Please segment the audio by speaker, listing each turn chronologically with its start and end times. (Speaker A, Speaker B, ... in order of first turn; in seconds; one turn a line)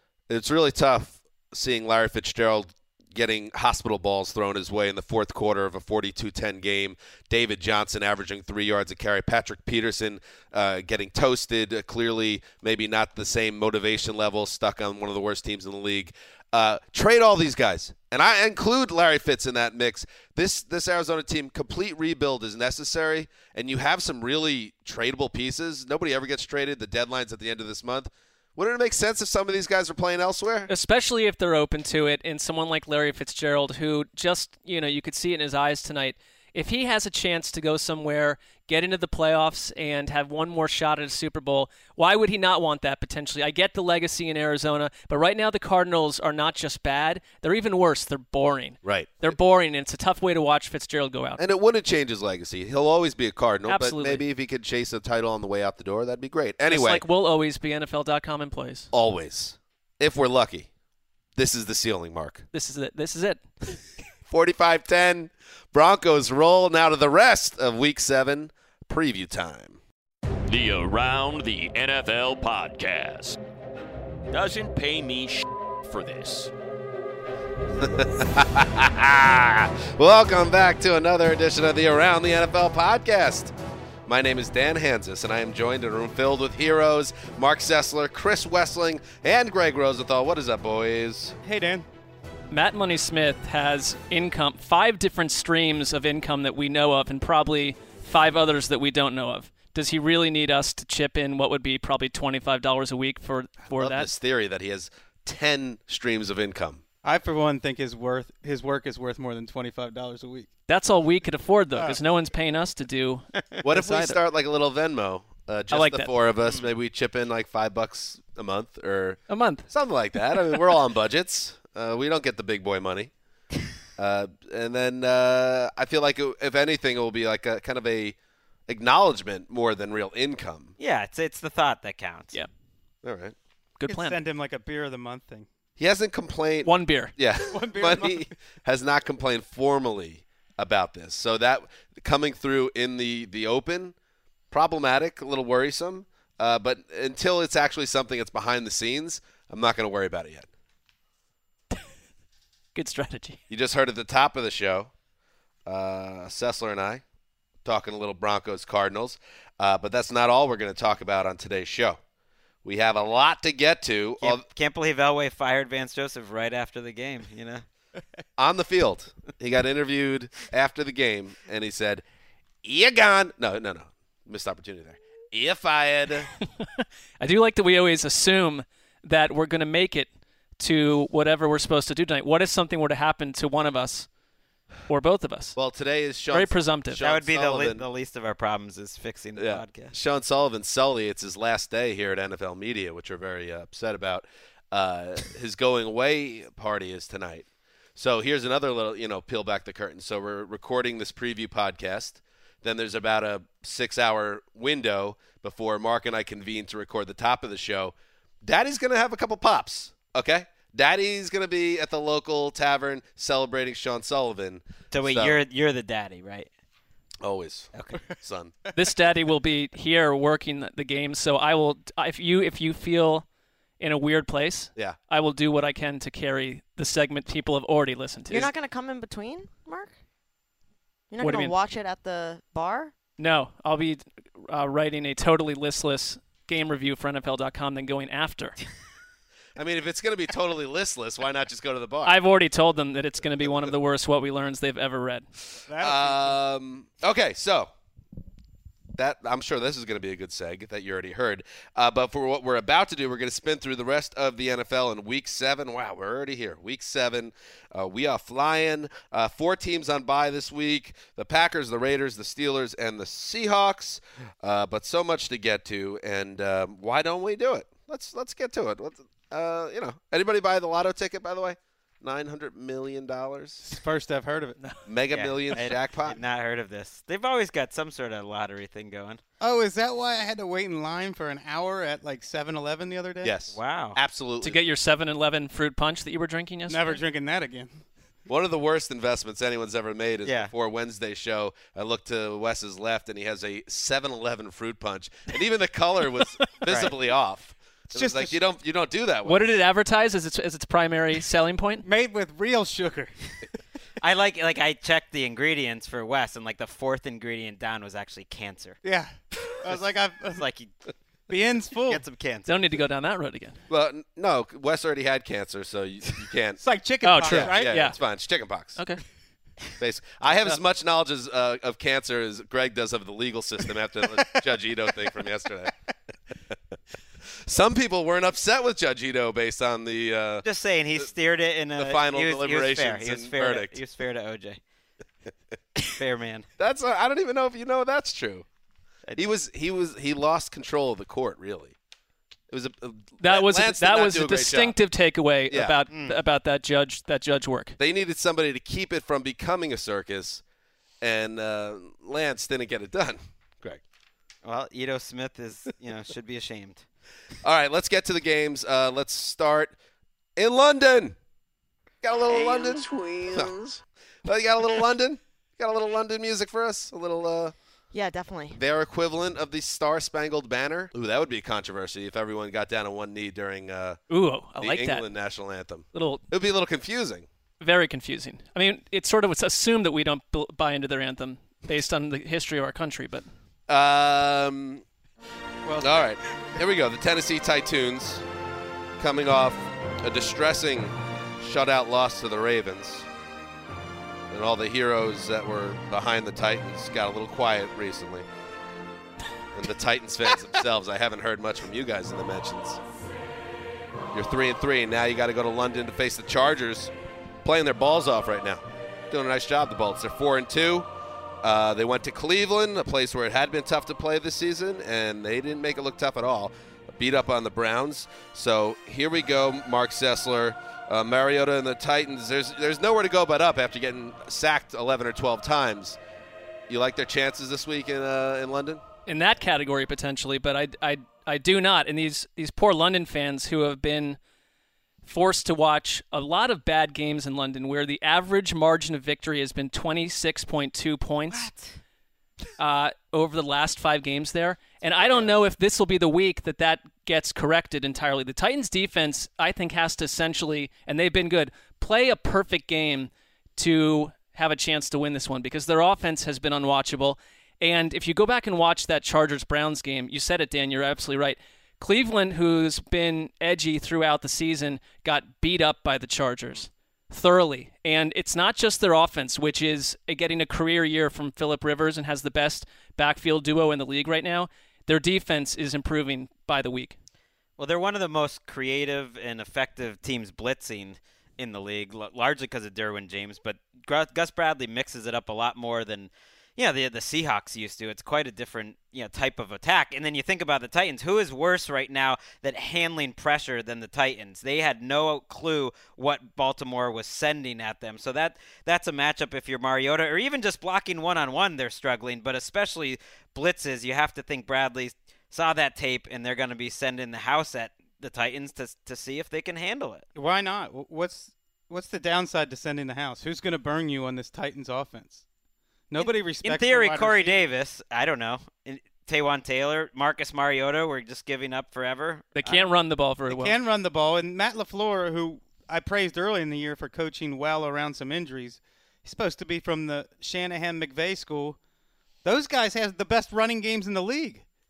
Speaker A: 0.3-30.7
Speaker B: 30.7-51.4
Speaker A: 48.8-49.3
Speaker A: 51.4-57.0
Speaker B: 53.7-54.2
Speaker B: 56.7-58.9
Speaker A: 58.9-60.7
Speaker A: 61.4-62.5
Speaker B: 62.5-63.9
Speaker A: 64.3-69.8
Speaker C: 70.5-73.4
Speaker C: 74.3-76.5
Speaker A: 77.7-83.5
Speaker A: 84.0-91.3
Speaker D: 91.4-91.8
Speaker B: 92.5-104.1
Speaker A: 103.7-106.8
Speaker D: 107.0-110.5
Speaker B: 110.7-114.2
Speaker D: 111.8-112.0
Speaker A: 113.6-123.1
Speaker B: 115.7-116.1
Speaker B: 119.3-119.7
Speaker A: 124.0-128.2
Speaker A: 128.7-130.7
Speaker E: 130.8-132.3
Speaker A: 133.0-133.3
Speaker B: 133.8-134.2
Speaker D: 133.9-135.5
Speaker A: 135.8-143.9
Speaker B: 136.6-137.1
Speaker D: 137.5-138.3
Speaker A: 144.5-150.5
Speaker B: 152.7-153.4
Speaker A: 153.5-154.9
Speaker A: 155.7-157.0
Speaker A: 157.6-162.0
Speaker A: 162.6-164.4
Speaker E: 164.2-167.6
Speaker A: 168.4-172.0
Speaker A: 172.6-176.3
Speaker B: 177.2-184.1
Speaker B: 184.9-185.5
Speaker A: 185.6-187.8
Speaker B: 186.3-187.0
Speaker E: 187.0-189.9
Speaker A: 189.4-215.4
Speaker E: 214.9-216.5
Speaker A: 217.2-218.6
Speaker E: 217.7-218.0
Speaker B: 218.8-223.2
Speaker B: 223.8-228.5
Speaker F: 228.3-230.0
Speaker F: 231.1-232.9
Speaker B: 231.2-231.6
Speaker B: 233.2-238.6
Speaker A: 239.6-242.2
Speaker B: 242.0-245.3
Speaker D: 245.7-246.4
Speaker A: 245.8-247.7
Speaker A: 249.0-273.6
Speaker D: 273.6-274.6
Speaker A: 274.9-276.2
Speaker E: 275.1-279.2
Speaker D: 279.4-283.3
Speaker A: 283.2-284.6
Speaker E: 283.5-284.0
Speaker B: 284.4-287.0
Speaker D: 286.7-287.8
Speaker A: 288.3-299.5
Speaker E: 290.2-290.5
Speaker E: 296.7-296.9
Speaker D: 297.9-298.4
Speaker B: 299.2-301.9
Speaker D: 301.9-303.1
Speaker E: 304.0-308.8
Speaker D: 308.8-310.4
Speaker E: 310.3-310.7
Speaker D: 311.3-312.0
Speaker E: 311.9-312.5
Speaker B: 312.5-313.6
Speaker A: 313.7-316.6
Speaker D: 316.6-317.9
Speaker B: 317.0-318.0
Speaker A: 317.2-318.8
Speaker B: 318.8-319.0
Speaker A: 319.8-325.7
Speaker A: 327.3-330.4
Speaker E: 330.4-334.6
Speaker A: 331.8-333.8
Speaker E: 335.9-336.4
Speaker A: 336.6-338.4
Speaker A: 339.1-341.8
Speaker A: 342.5-344.7
Speaker B: 343.2-347.8
Speaker A: 345.5-345.8
Speaker E: 345.9-346.2
Speaker A: 347.8-350.4
Speaker A: 351.0-353.8
Speaker E: 354.4-356.8
Speaker A: 357.4-359.7
Speaker A: 360.4-361.2
Speaker A: 362.0-367.5
Speaker F: 362.3-363.5
Speaker F: 367.9-368.6
Speaker A: 368.5-374.0
Speaker B: 374.1-375.0
Speaker A: 374.6-377.3
Speaker B: 375.9-376.2
Speaker B: 377.6-383.2
Speaker A: 383.7-384.8
Speaker D: 385.6-386.0
Speaker A: 385.8-388.2
Speaker A: 389.0-393.1
Speaker A: 394.3-398.2
Speaker A: 399.5-402.8
Speaker A: 404.1-406.9
Speaker A: 407.4-410.9
Speaker A: 411.4-426.0
Speaker A: 426.7-428.8
Speaker B: 429.1-434.2
Speaker B: 435.0-441.5
Speaker E: 441.3-441.6
Speaker B: 442.6-476.9
Speaker E: 477.6-510.1
Speaker D: 510.1-515.2
Speaker D: 515.9-517.4
Speaker E: 516.0-522.6
Speaker B: 522.3-523.5
Speaker D: 523.3-531.6
Speaker D: 532.2-534.4